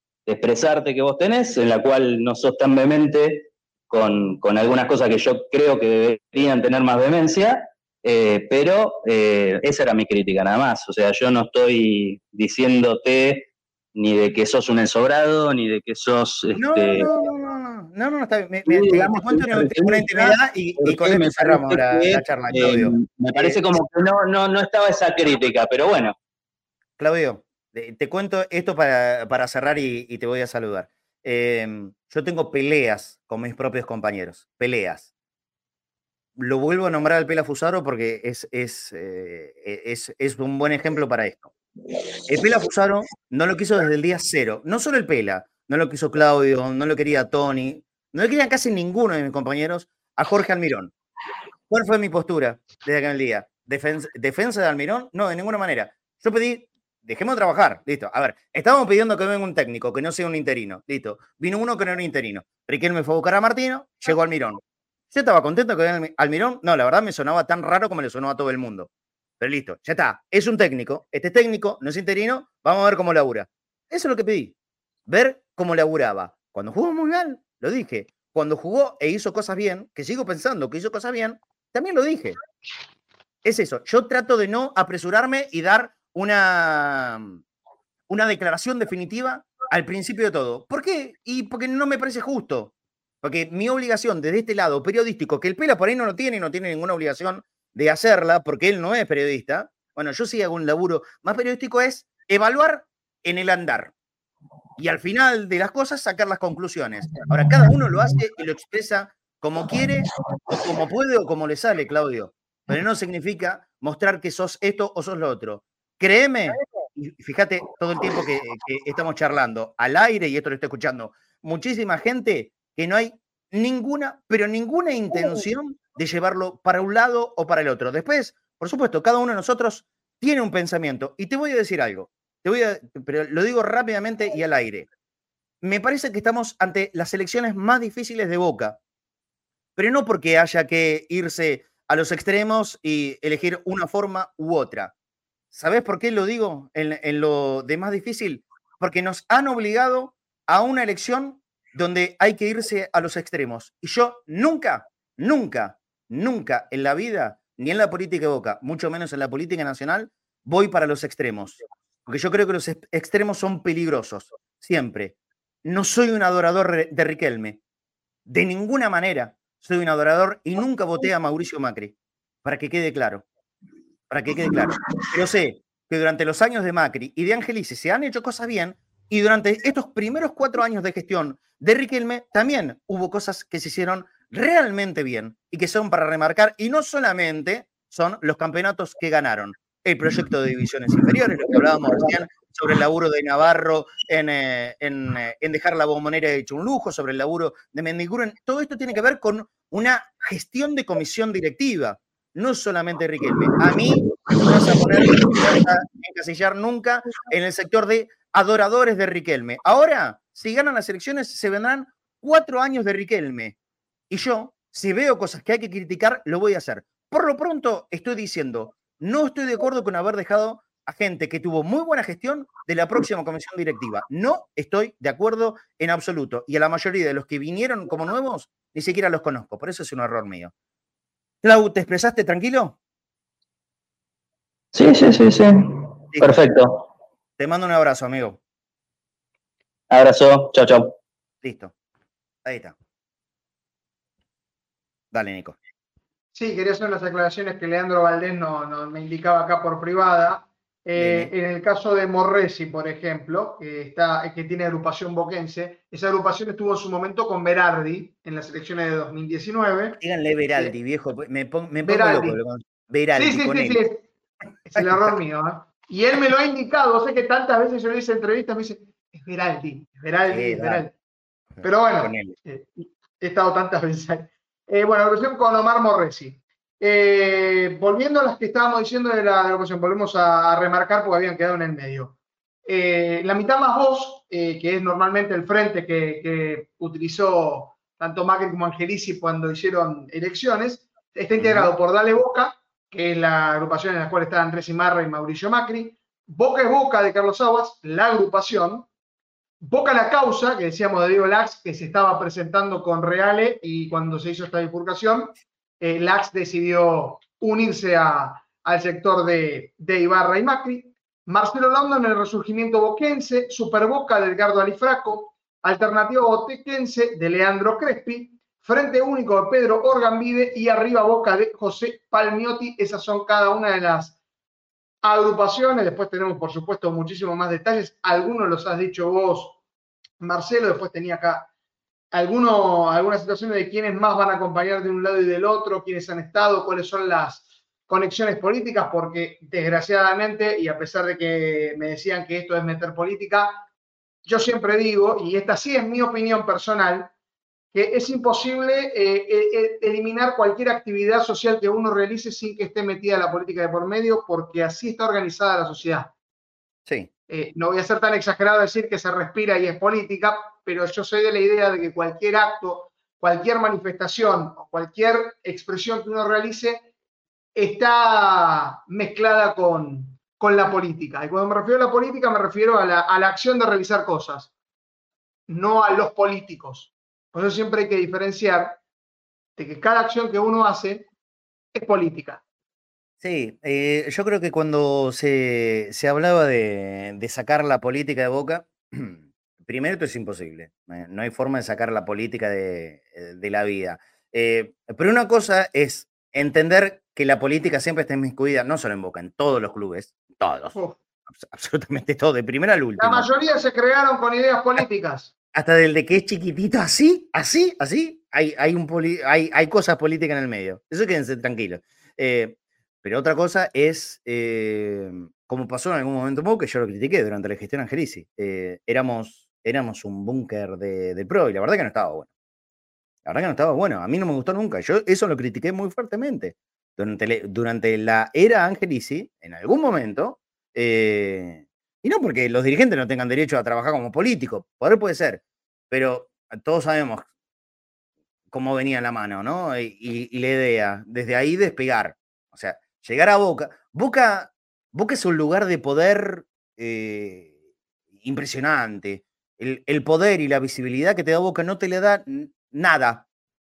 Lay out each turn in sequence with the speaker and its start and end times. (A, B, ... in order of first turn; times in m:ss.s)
0:00.3-0:17.1 A
0:16.5-0:23.6 B
0:18.6-0:26.1 A
0:27.0-0:35.1 B
0:36.4-0:41.5 B
0:42.3-0:50.9 B
0:51.7-1:08.9 B
1:09.4-1:14.5 B
1:15.1-1:22.4 B
1:23.4-1:27.4 B
1:28.1-1:32.7 B
1:33.2-1:43.9 B
1:44.8-2:14.9 B
2:15.6-2:18.8 B
2:19.8-2:24.9 B
2:25.5-2:47.6 B
2:48.3-2:53.2 B
2:54.1-3:33.5 B
3:34.1-3:50.5 B
3:51.4-3:52.8 B
3:54.7-3:56.8 A
3:56.1-3:56.4 B
3:57.4-3:58.4 B
3:59.9-4:01.0 A
4:01.4-4:01.7 B
4:02.4-4:02.7 B
4:05.1-4:05.6 B
4:06.3-4:20.0 C
4:10.9-4:11.3 B
4:20.0-4:23.8 B
4:21.8-4:22.4 C
4:23.2-4:24.1 C
4:24.6-4:30.9 C
4:24.8-4:25.1 B
4:30.3-4:30.9 B
4:31.5-4:32.4 B
4:31.6-4:58.9 C
4:51.4-4:51.7 B
4:59.6-5:24.2 C
5:25.0-5:29.6 C
5:30.2-5:31.5 C
5:32.1-5:43.6 C
5:44.2-5:47.1 C
5:47.7-5:56.1 C
5:57.3-6:06.9 C
6:07.5-6:14.5 C
6:15.5-6:18.8 C
6:19.6-6:21.1 C
6:21.7-6:22.4 C
6:23.2-6:40.7 B
6:41.4-6:43.3 B
6:43.0-6:45.3 C
6:45.5-7:02.3 B
7:03.2-7:17.3 B
7:18.5-7:27.5 B
7:28.2-7:33.2 B